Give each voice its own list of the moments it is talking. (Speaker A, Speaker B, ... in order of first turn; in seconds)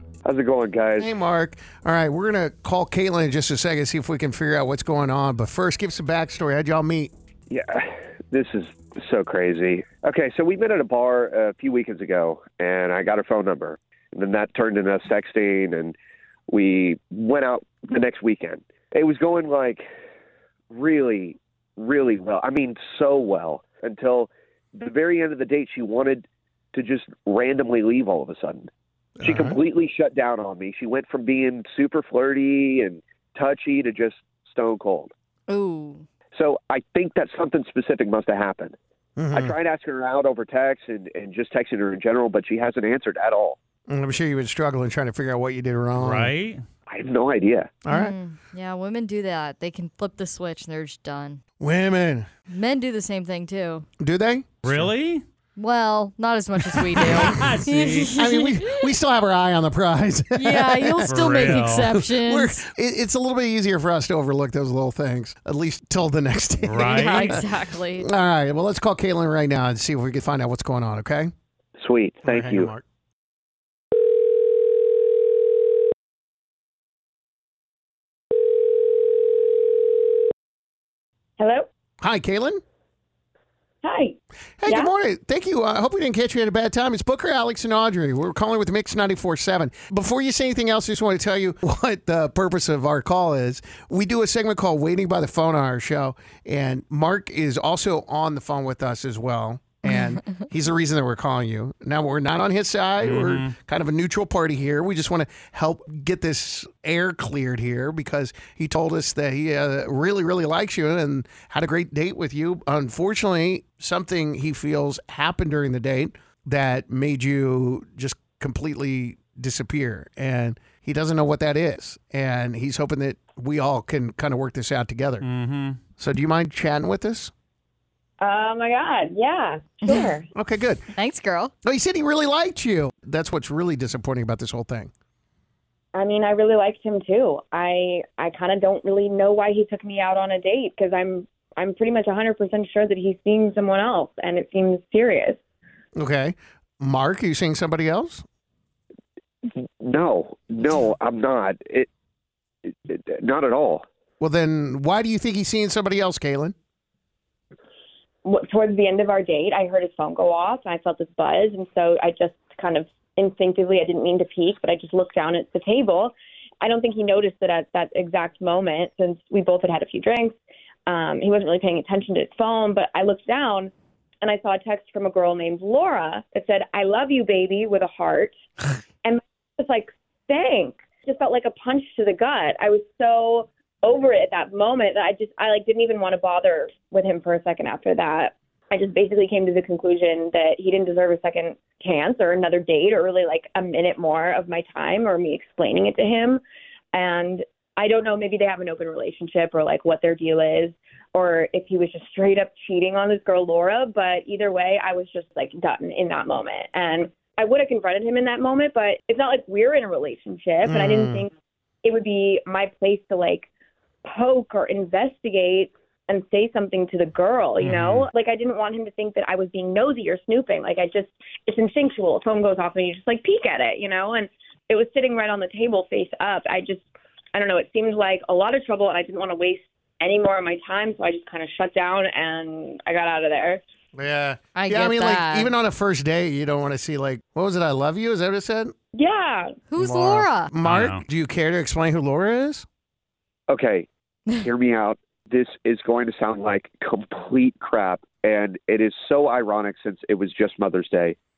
Speaker A: 0.2-1.1, 7.5-15.9, 16.5-19.8, 20.7-28.7, 29.2-35.1, 36.3-38.7, 39.3-43.6, 46.9-47.8, 71.8-72.7, 149.4-151.9, 152.7-153.8, 243.5-243.9, 244.4-251.2
Speaker B: 1.0-7.1, 29.2-29.6, 39.2-39.5, 43.9-46.3, 47.8-48.1, 51.6-52.3, 54.0-54.9, 58.1-71.3, 72.2-72.8, 82.0-82.6, 84.6-125.2, 126.0-127.3, 130.3-130.8, 131.6-134.9, 145.9-148.2, 154.2-156.5, 210.6-211.2, 233.9-238.7, 239.8-242.6
Speaker C: 35.5-36.0, 47.9-51.4, 52.5-53.9, 55.5-58.9, 60.3-62.6, 66.8-68.0, 130.9-131.5, 234.5-235.5, 239.7-240.5
Speaker D: 46.0-46.6, 54.6-55.2, 56.9-58.1, 61.0-61.9, 66.6-67.4, 103.0-103.5, 125.2-125.8, 217.6-218.1, 240.6-241.0
Speaker E: 81.4-81.7, 83.8-84.9, 128.2-130.2, 135.9-145.4, 158.2-170.3, 170.9-178.3, 179.0-196.4, 196.9-211.3, 211.8-213.5, 214.1-233.6, 238.9-239.5